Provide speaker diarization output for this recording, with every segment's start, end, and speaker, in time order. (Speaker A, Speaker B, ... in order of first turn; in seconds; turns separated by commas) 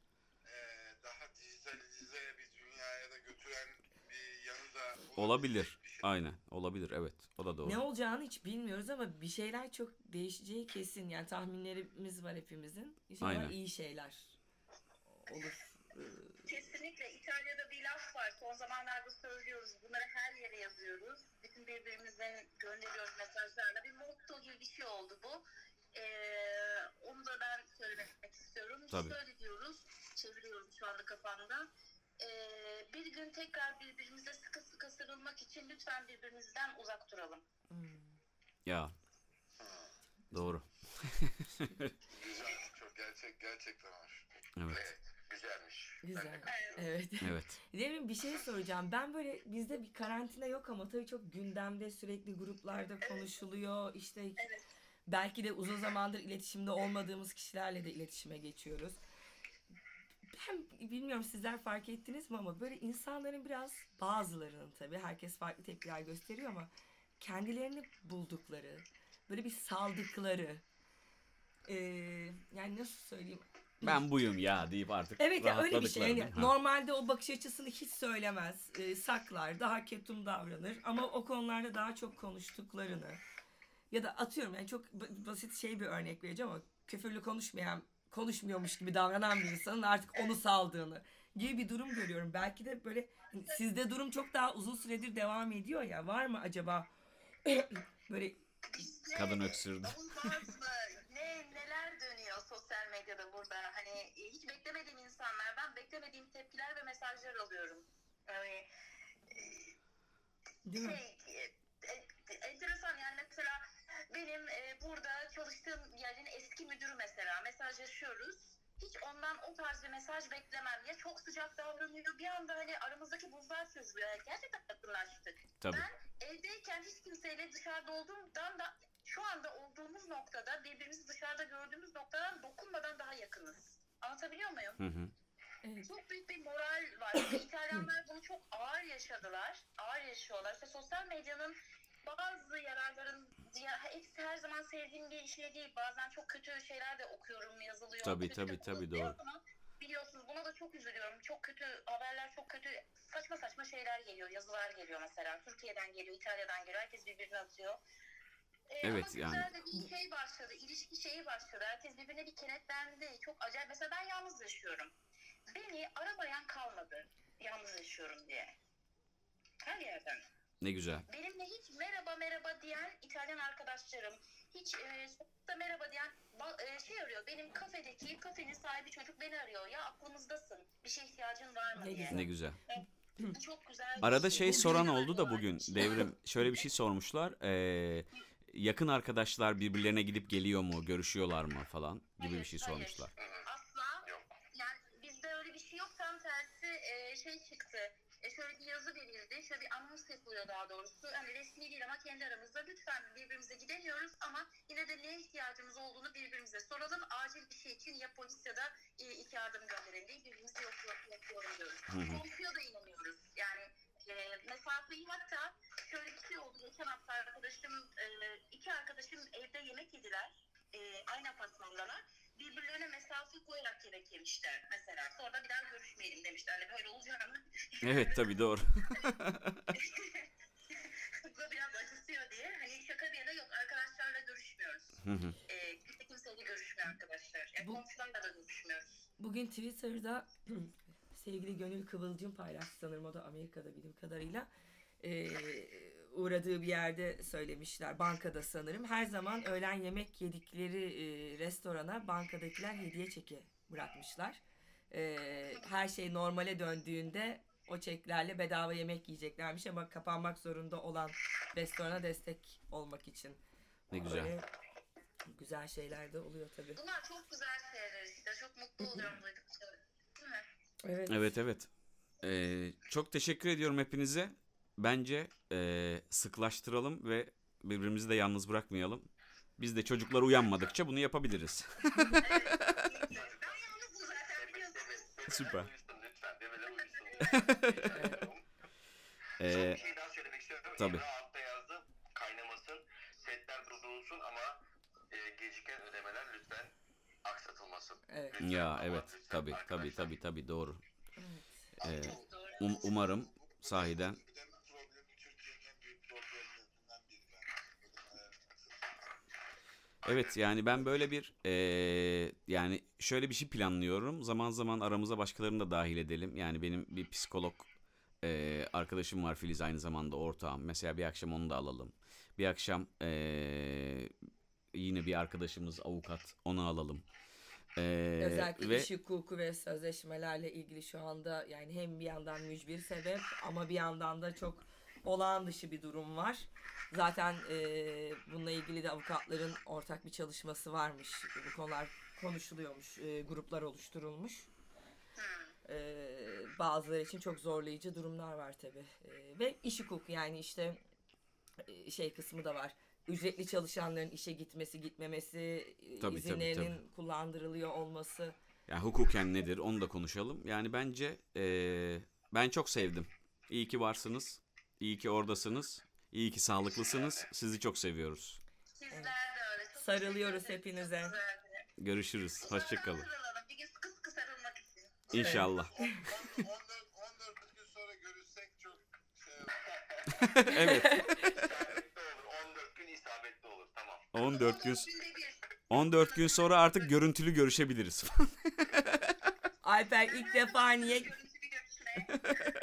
Speaker A: 0.4-6.1, Speaker B: 5.2-7.8, Speaker C: 7.6-14.4, Speaker B: 13.2-13.6, Speaker C: 15.3-16.5, Speaker D: 16.5-37.5, Speaker C: 37.7-38.2, Speaker B: 38.7-38.9, Speaker B: 40.3-41.9, Speaker A: 42.1-44.3, Speaker B: 44.6-44.9, Speaker E: 44.7-46.9, Speaker C: 46.0-54.4, Speaker D: 46.5-46.9, Speaker B: 47.2-47.6, Speaker D: 54.4-54.7, Speaker C: 55.1-59.0, Speaker C: 60.3-70.6, Speaker C: 71.7-74.0, Speaker B: 73.8-76.5, Speaker C: 75.2-83.2, Speaker C: 83.9-96.9, Speaker C: 97.4-98.5, Speaker D: 98.7-108.7, Speaker B: 99.1-100.0, Speaker D: 109.3-109.8, Speaker C: 110.7-111.0, Speaker D: 110.8-134.8, Speaker B: 134.8-135.1, Speaker C: 135.6-135.9, Speaker D: 135.8-157.8, Speaker B: 148.0-149.2, Speaker D: 158.7-164.9, Speaker B: 158.8-159.5, Speaker D: 165.5-168.6, Speaker D: 169.6-170.3, Speaker B: 170.6-171.1, Speaker D: 171.1-186.7, Speaker C: 181.8-183.3, Speaker B: 182.1-182.6, Speaker B: 184.0-193.1, Speaker C: 184.4-184.7, Speaker D: 192.2-229.2, Speaker E: 193.2-193.5, Speaker E: 194.0-194.3, Speaker B: 211.9-212.2, Speaker B: 227.8-229.7, Speaker D: 229.7-239.0, Speaker B: 235.0-235.4, Speaker C: 239.2-244.5, Speaker C: 245.0-263.4, Speaker B: 263.9-264.3, Speaker C: 263.9-264.5, Speaker C: 265.3-266.8, Speaker D: 266.8-270.5, Speaker C: 268.8-269.1, Speaker C: 270.8-271.4, Speaker B: 271.1-271.7, Speaker B: 272.2-282.8, Speaker D: 282.2-285.1, Speaker E: 282.2-283.6, Speaker E: 284.4-288.5, Speaker B: 285.3-285.7, Speaker D: 286.7-287.6, Speaker B: 287.3-287.9, Speaker C: 287.9-288.2, Speaker B: 289.4-289.8, Speaker E: 289.4-300.1, Speaker B: 290.8-291.0, Speaker C: 298.1-298.4, Speaker B: 298.4-300.8, Speaker C: 301.2-301.7, Speaker B: 301.8-304.2, Speaker D: 301.8-302.9, Speaker A: 301.9-309.2, Speaker B: 310.0-317.7, Speaker E: 310.1-310.3, Speaker B: 318.2-324.1, Speaker B: 324.7-327.1, Speaker B: 327.8-328.9, Speaker C: 328.2-344.5, Speaker D: 345.2-345.6, Speaker C: 345.6-350.8, Speaker C: 351.6-358.4, Speaker B: 356.0-356.7, Speaker B: 358.7-368.4, Speaker E: 366.7-367.3, Speaker D: 368.8-371.7, Speaker C: 369.8-371.2, Speaker B: 371.8-373.1, Speaker D: 372.4-375.1, Speaker A: 375.1-379.7, Speaker B: 375.1-375.8, Speaker C: 375.2-376.1, Speaker E: 379.6-380.2, Speaker B: 380.2-381.0, Speaker C: 380.5-381.4, Speaker E: 380.8-384.1, Speaker B: 384.1-384.9, Speaker D: 384.2-386.9, Speaker B: 385.7-389.1, Speaker C: 389.6-391.1, Speaker D: 390.1-392.5